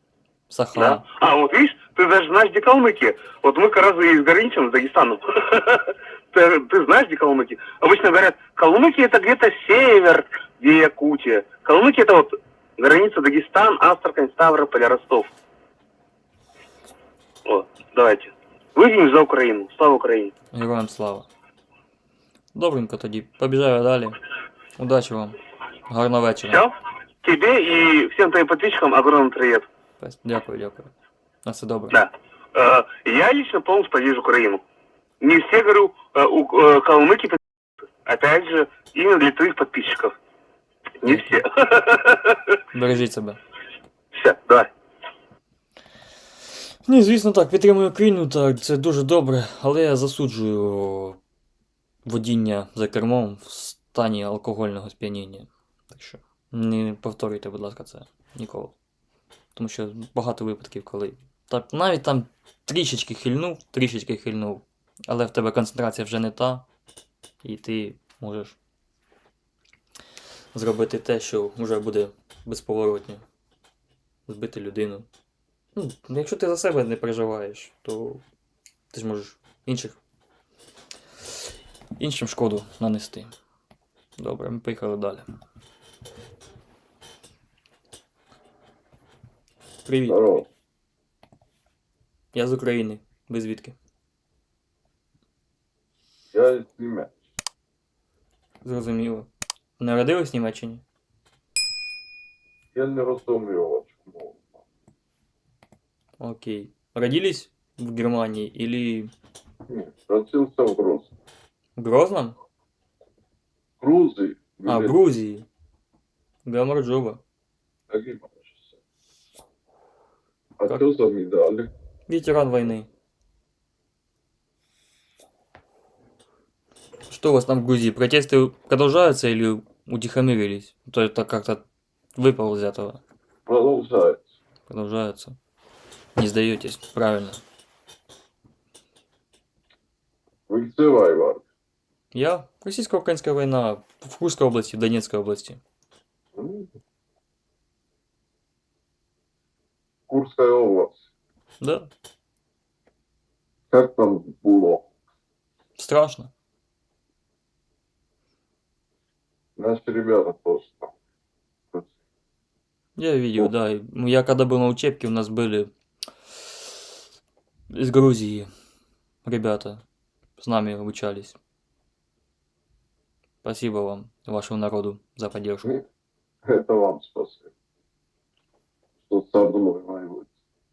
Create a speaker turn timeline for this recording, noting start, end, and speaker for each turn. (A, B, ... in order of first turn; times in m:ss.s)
0:00.5-0:01.0 A
0:00.8-0:15.3 B
0:17.5-0:20.3 B
0:20.5-0:21.3 A
0:22.6-0:24.2 A
0:24.8-0:25.4 A
0:25.9-0:26.6 A
0:27.2-0:29.6 B
0:30.0-0:30.9 A
0:31.4-0:32.0 A
0:31.9-0:34.6 B
0:35.2-0:37.4 B
0:38.0-0:40.1 B
0:41.0-0:42.4 B
0:41.0-0:41.4 A
0:42.7-0:43.4 A
0:44.1-0:44.7 B
0:46.9-0:51.2 A
0:52.1-0:58.7 A
0:59.6-1:06.6 A
1:07.4-1:08.6 A
1:10.5-1:13.2 A
1:14.3-1:15.1 A
1:15.8-1:18.2 A
1:18.9-1:20.0 A
1:22.0-1:23.3 A
1:24.2-1:25.3 A
1:29.9-1:30.2 A
1:30.1-1:30.5 C
1:32.3-1:33.8 A
1:36.3-1:37.2 C
1:38.6-1:40.8 A
1:42.8-1:44.6 C
1:46.2-1:49.1 A
1:49.7-1:51.1 C
1:51.8-1:52.4 A
1:53.8-1:55.0 C
1:54.6-1:55.5 A
1:56.4-1:57.2 A
1:57.9-1:58.6 C
2:00.6-2:01.7 C
2:02.1-2:02.9 A
2:07.1-2:11.6 A
2:12.2-2:13.0 A
2:13.5-2:14.2 C
2:14.7-2:15.4 A
2:16.2-2:17.4 A
2:20.5-2:21.4 C
2:22.1-2:25.6 A
2:26.4-2:26.7 C
2:30.1-2:31.0 C
2:31.6-2:31.9 A
2:33.7-2:34.8 C
2:35.8-2:36.3 A
2:39.6-2:40.9 C
2:43.0-2:45.7 A
2:47.7-2:48.5 A
2:49.2-2:49.8 A
2:50.4-2:51.4 A
2:53.4-2:55.7 A
2:56.5-2:57.5 C
2:59.1-3:00.3 C